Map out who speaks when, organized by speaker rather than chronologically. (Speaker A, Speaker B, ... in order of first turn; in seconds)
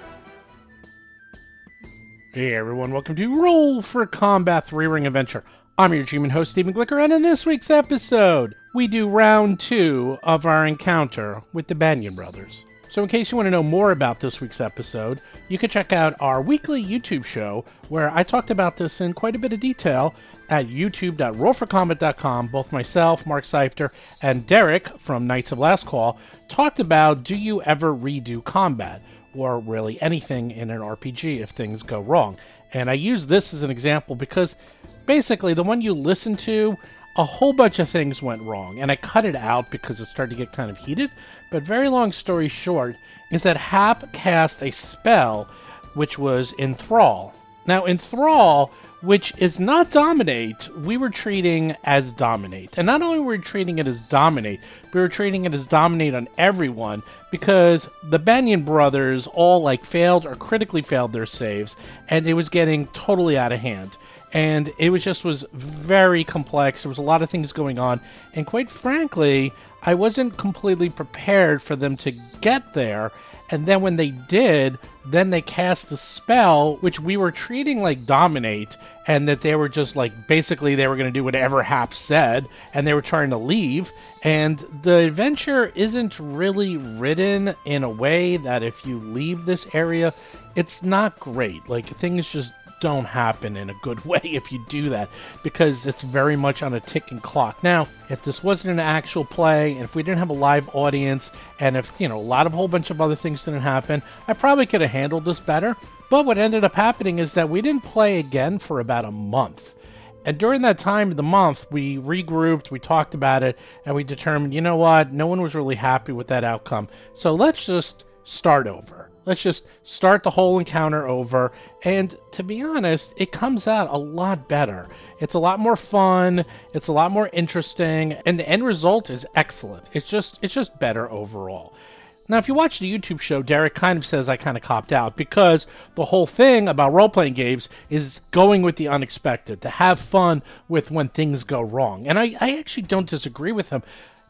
Speaker A: 2.3-34.6, 35.1-131.7, 132.3-143.8